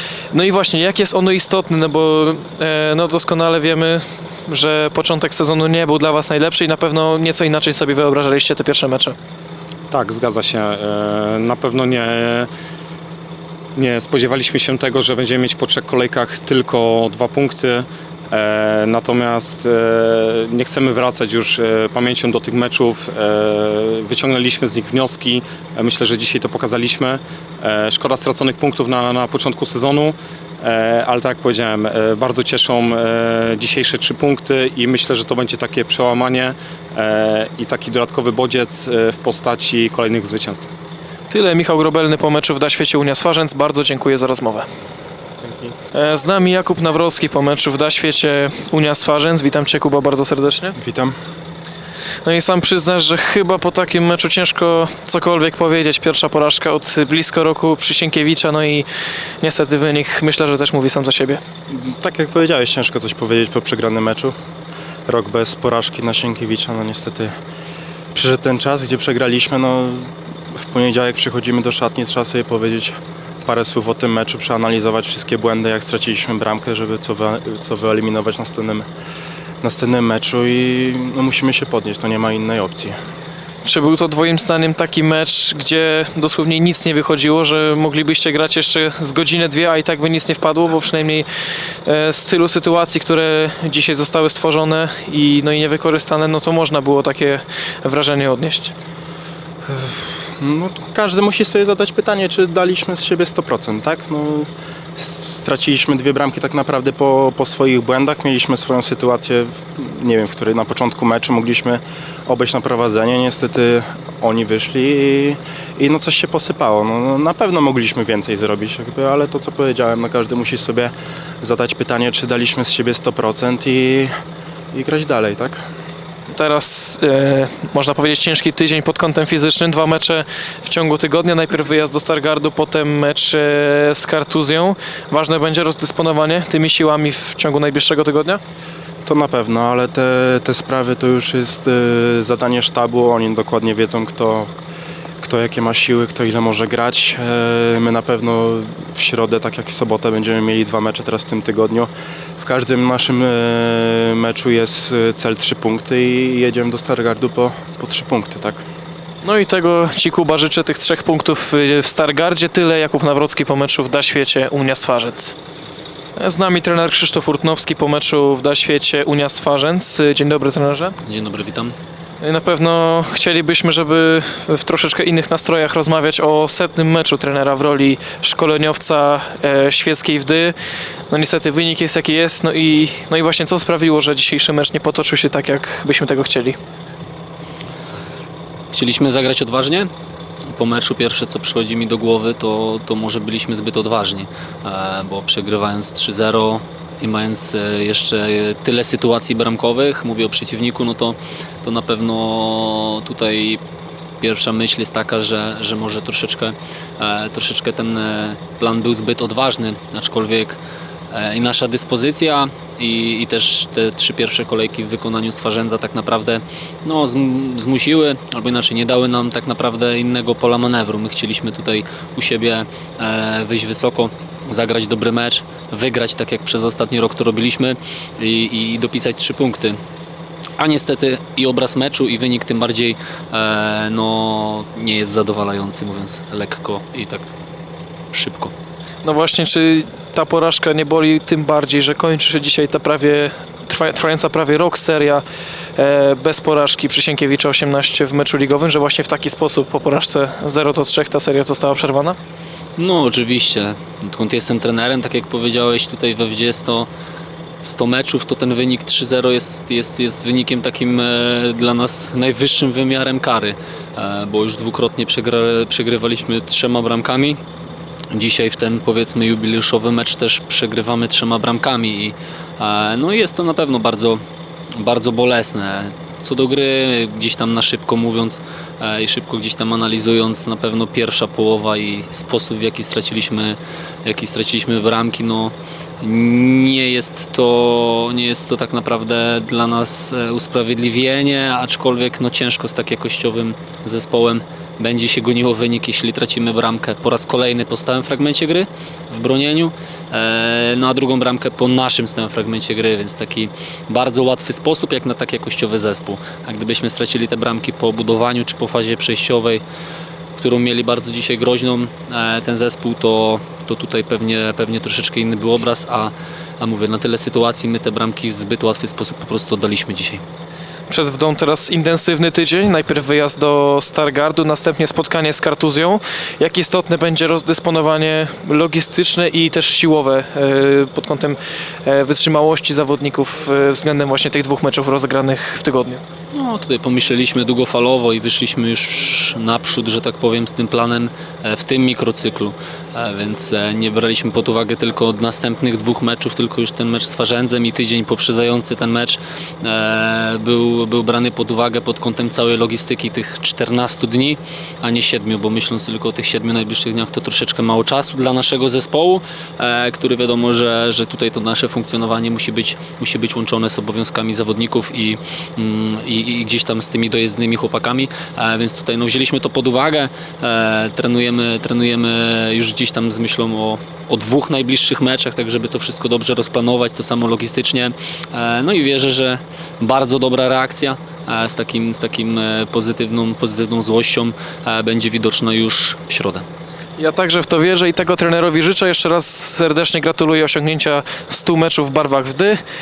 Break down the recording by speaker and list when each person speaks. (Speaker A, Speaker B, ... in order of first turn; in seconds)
Speaker A: 0.3-9.1, 41.3-44.7, 45.9-50.7, 52.2-58.9, 59.4-61.4, 83.6-91.2, 91.8-98.7, 126.3-138.4, 159.2-165.3, 166.2-170.9, 172.2-180.5, 181.1-186.6, 239.0-245.2, 245.8-252.2, 320.9-336.0, 387.0-392.6
Speaker B: 9.9-12.5, 13.7-40.7
Speaker C: 50.8-51.1, 61.8-64.3, 65.1-67.3, 68.1-70.1, 70.6-78.8, 79.6-83.0, 100.0-104.5, 105.0-124.1, 124.7-125.6, 139.0-144.5, 145.2-151.9, 152.4-158.6
Speaker D: 171.0-171.8, 188.7-189.9, 190.5-203.6, 204.2-210.6, 211.1-229.8, 230.6-237.3, 238.1-238.5, 252.8-256.9, 257.6-267.4, 268.1-274.2, 274.8-309.6, 310.4-320.2, 336.3-386.4